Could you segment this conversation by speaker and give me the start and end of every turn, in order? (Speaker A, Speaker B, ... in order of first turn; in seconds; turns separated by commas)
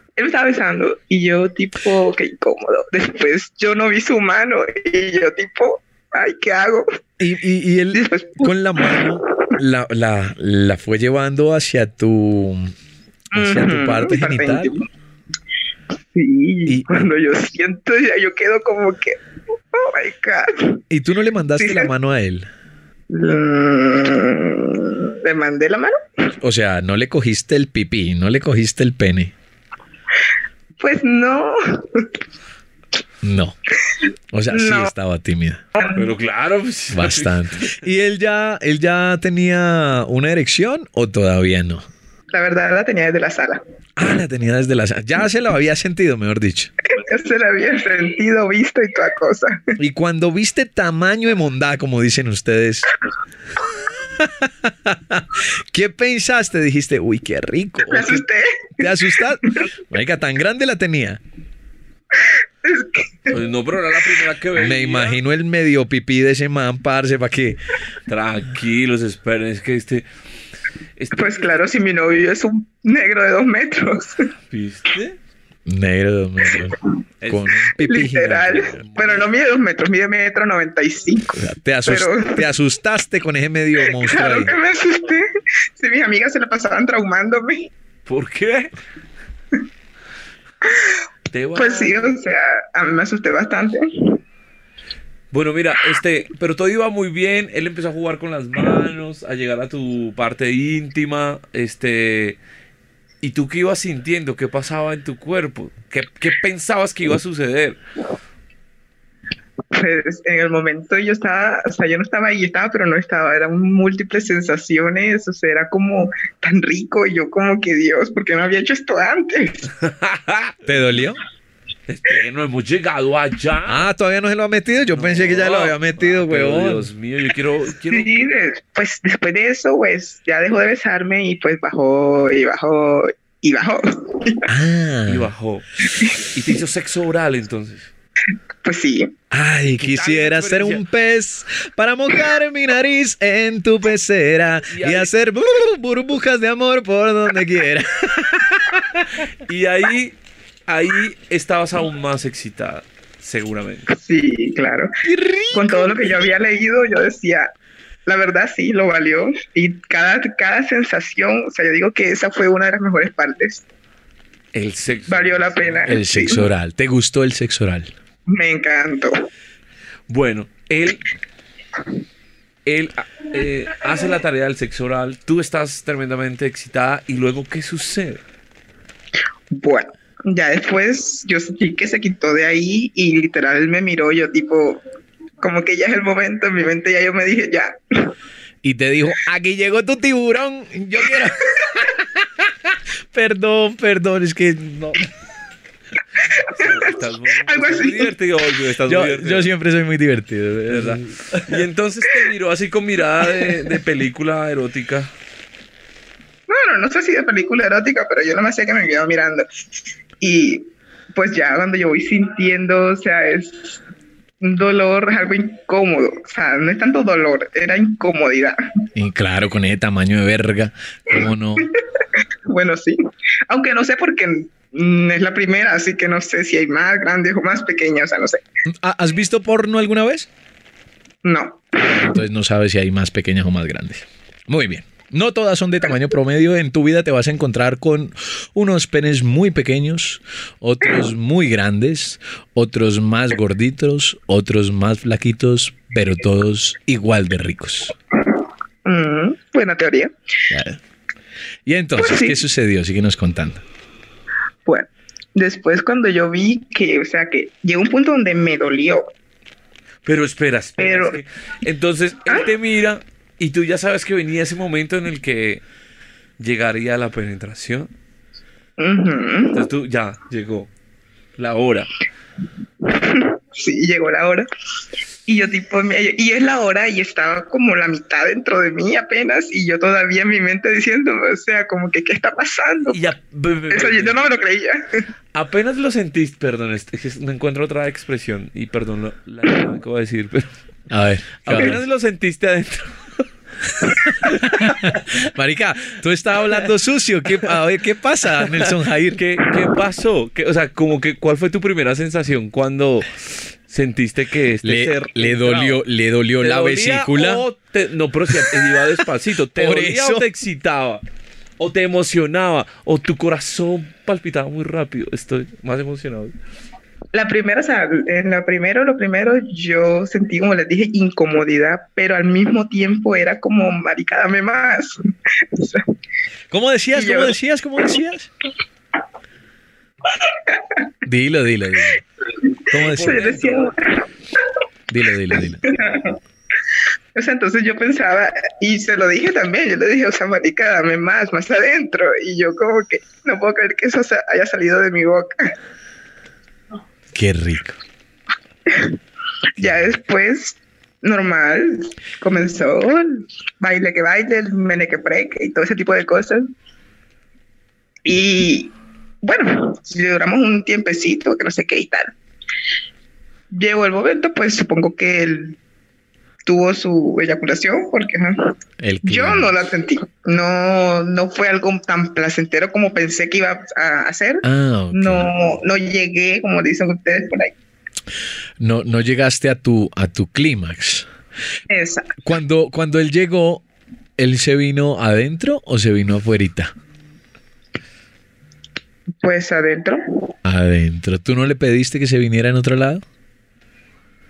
Speaker A: 0.2-6.9, Speaker B: 7.2-12.8, Speaker A: 7.9-9.5, Speaker B: 13.3-14.7, Speaker A: 13.3-14.9, Speaker A: 16.1-19.2, Speaker A: 19.7-20.8, Speaker B: 20.9-22.5, Speaker A: 21.6-21.9, Speaker A: 23.1-26.2, Speaker B: 26.4-29.3, Speaker A: 30.8-32.1, Speaker B: 33.2-33.6, Speaker B: 34.3-35.6, Speaker A: 34.5-34.9, Speaker A: 35.8-36.0, Speaker C: 35.8-37.8, Speaker B: 36.9-41.9, Speaker A: 42.3-43.6, Speaker B: 44.0-46.7, Speaker A: 46.9-49.8, Speaker B: 49.8-52.9, Speaker B: 54.1-58.2, Speaker A: 57.9-58.9, Speaker B: 58.8-61.2, Speaker A: 62.2-63.4, Speaker C: 63.3-65.2, Speaker B: 64.5-67.6, Speaker C: 68.1-70.1, Speaker C: 71.0-71.6, Speaker A: 71.1-74.3, Speaker C: 74.5-75.2, Speaker B: 75.7-78.8, Speaker C: 77.2-77.5, Speaker A: 77.7-82.5, Speaker C: 78.7-79.3, Speaker B: 81.4-84.5, Speaker A: 83.8-87.7, Speaker C: 88.1-88.7, Speaker A: 90.6-91.0, Speaker C: 91.3-92.2, Speaker A: 91.5-94.2, Speaker C: 95.3-102.4, Speaker C: 103.2-107.8, Speaker A: 109.7-119.7, Speaker C: 119.8-120.5, Speaker B: 120.7-121.2, Speaker C: 121.9-123.9, Speaker B: 123.7-126.9, Speaker C: 124.9-128.1, Speaker A: 127.9-134.5, Speaker B: 134.5-135.3, Speaker C: 135.1-135.7, Speaker C: 136.2-137.9, Speaker A: 138.6-139.1, Speaker B: 139.3-149.1, Speaker C: 139.8-140.8, Speaker C: 144.7-145.1, Speaker C: 149.5-153.9, Speaker A: 153.9-154.9, Speaker B: 155.0-156.2, Speaker A: 155.5-157.5, Speaker A: 158.1-163.6, Speaker C: 164.5-165.9, Speaker A: 165.1-166.5, Speaker B: 165.9-167.9, Speaker A: 168.3-169.3, Speaker C: 170.1-171.1, Speaker C: 172.7-178.2, Speaker A: 179.5-184.8, Speaker A: 185.4-188.1, Speaker B: 188.6-195.1, Speaker A: 196.3-198.1, Speaker C: 196.3-199.5, Speaker B: 198.9-201.2, Speaker C: 200.7-205.1, Speaker A: 206.5-209.7, Speaker A: 210.2-213.8, Speaker A: 214.4-218.6, Speaker B: 219.0-221.7, Speaker A: 222.5-228.4, Speaker B: 228.7-230.3, Speaker A: 231.2-232.2, Speaker B: 231.8-247.9, Speaker A: 248.8-250.1, Speaker B: 250.5-250.8, Speaker B: 251.7-253.6, Speaker A: 252.0-252.4, Speaker A: 254.7-259.1, Speaker C: 260.1-265.6, Speaker A: 260.8-261.2, Speaker C: 266.4-267.9, Speaker A: 268.8-269.6, Speaker C: 269.5-270.7, Speaker C: 271.4-271.9, Speaker A: 272.8-274.5, Speaker A: 275.3-283.0, Speaker C: 282.9-284.2, Speaker A: 283.7-285.1, Speaker C: 285.3-290.5, Speaker B: 290.9-291.8, Speaker C: 291.4-293.2, Speaker C: 294.1-294.8, Speaker B: 294.2-299.2, Speaker C: 298.5-305.8, Speaker B: 304.6-307.4, Speaker C: 306.4-311.0, Speaker B: 308.3-309.0, Speaker B: 309.6-310.3, Speaker C: 311.6-316.3, Speaker A: 317.1-325.9, Speaker B: 326.5-328.3, Speaker A: 326.9-327.4, Speaker A: 330.1-330.6, Speaker B: 331.1-332.0, Speaker B: 332.7-333.3, Speaker A: 332.7-334.1, Speaker C: 332.8-333.7, Speaker B: 334.9-335.7, Speaker A: 335.3-336.1, Speaker A: 337.1-345.6, Speaker B: 347.1-347.8, Speaker A: 348.7-349.0, Speaker A: 349.6-356.5, Speaker B: 349.6-349.9, Speaker A: 358.1-358.7, Speaker A: 359.2-362.1, Speaker A: 363.5-365.6, Speaker A: 366.4-377.6, Speaker B: 368.8-369.5, Speaker B: 374.4-375.3, Speaker B: 378.6-381.1, Speaker A: 381.7-382.2, Speaker B: 382.2-383.6, Speaker B: 384.2-386.7, Speaker A: 389.2-390.3, Speaker B: 390.4-393.0